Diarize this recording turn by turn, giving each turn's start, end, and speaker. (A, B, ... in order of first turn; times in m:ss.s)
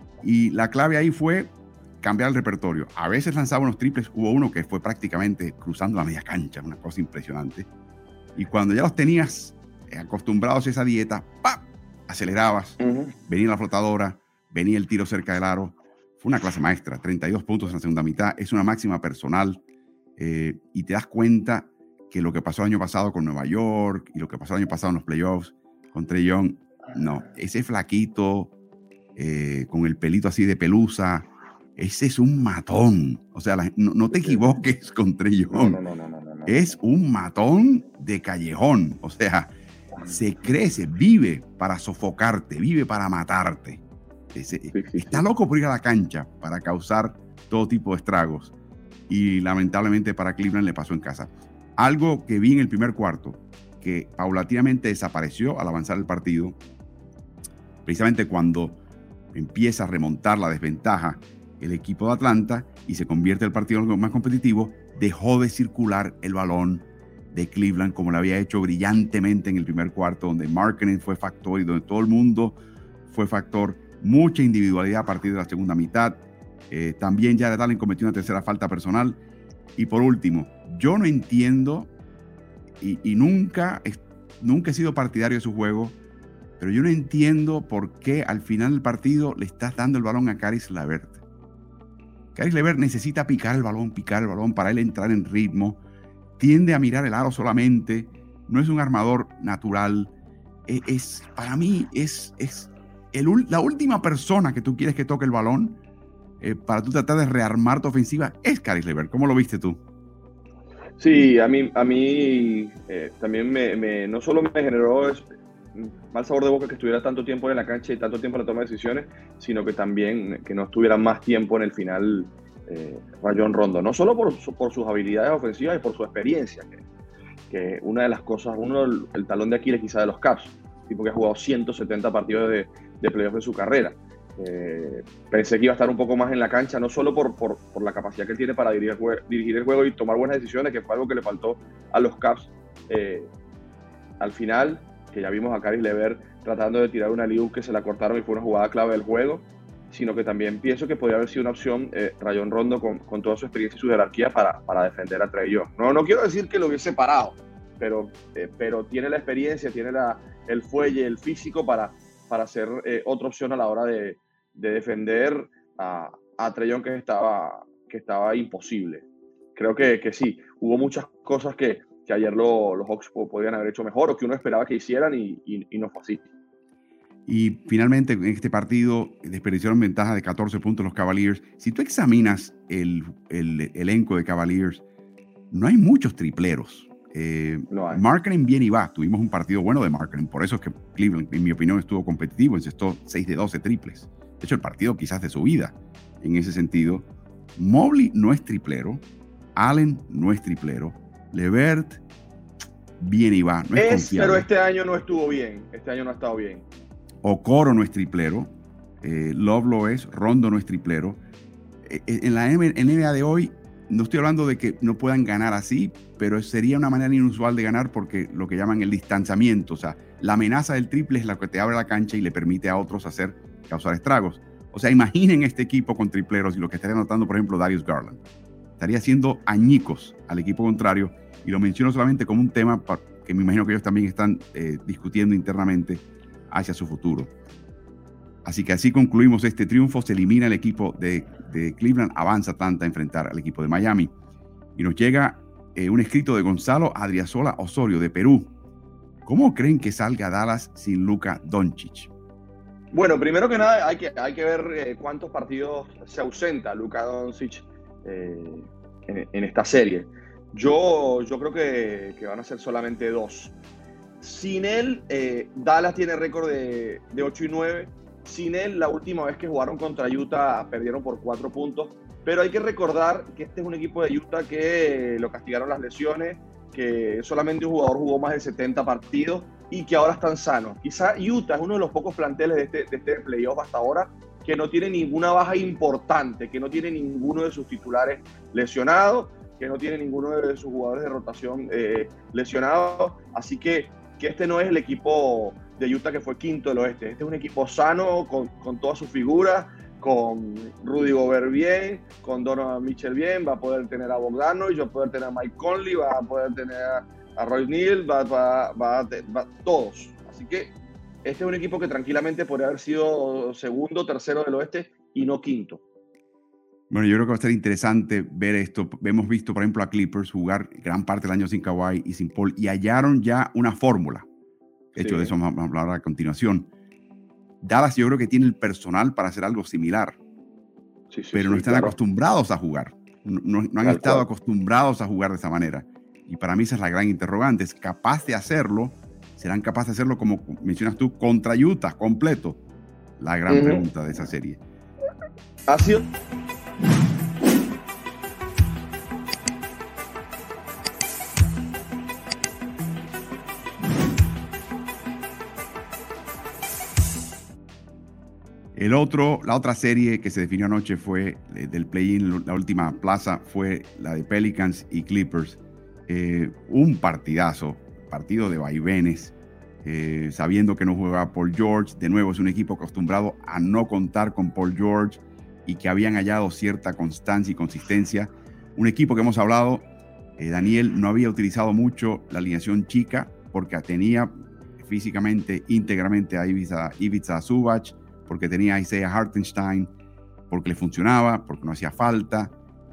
0:00.2-0:07.7 A
0:08.4-0:19.6 A
0:12.8-0:13.1 B
0:20.2-0:28.5 A
0:29.2-0:35.8 A
0:34.1-0:34.4 B
0:35.5-0:36.8 B
0:36.4-0:39.5 A
0:40.0-0:48.5 A
0:44.7-0:45.2 B
0:49.1-0:56.6 A
0:57.8-0:58.8 A
0:59.3-1:12.6 A
1:13.1-1:19.2 A
1:19.8-1:21.9 A
1:22.8-1:26.0 A
1:26.6-1:31.2 A
1:32.3-1:35.8 A
1:36.4-1:40.1 A
1:40.7-1:45.8 A
1:46.4-1:49.8 A
1:51.0-2:06.8 B
2:07.5-2:23.3 B
2:24.2-2:56.2 B
2:57.3-3:04.8 A
3:05.5-3:19.0 A
3:07.7-3:08.0 B
3:19.5-3:22.0 A
3:23.0-3:24.4 A
3:23.8-3:26.6 B
3:27.2-3:31.2 A
3:31.8-3:48.2 A
3:48.8-3:57.3 A
3:58.4-4:04.1 A
4:04.8-4:08.5 A
4:09.2-4:12.1 A
4:12.9-4:23.6 B
4:24.2-5:10.7 B
5:11.2-5:15.8 B
5:16.9-5:24.2 A
5:24.9-5:26.7 A
5:25.0-5:25.3 B
5:27.6-5:30.2 A
5:31.1-5:32.0 B
5:31.3-5:42.6 A
5:33.8-5:34.2 B
5:43.2-5:44.6 A
5:43.5-5:43.8 B
5:45.7-5:46.0 B
5:58.7-6:19.9 A
6:20.4-6:29.9 A
6:30.5-6:32.5 A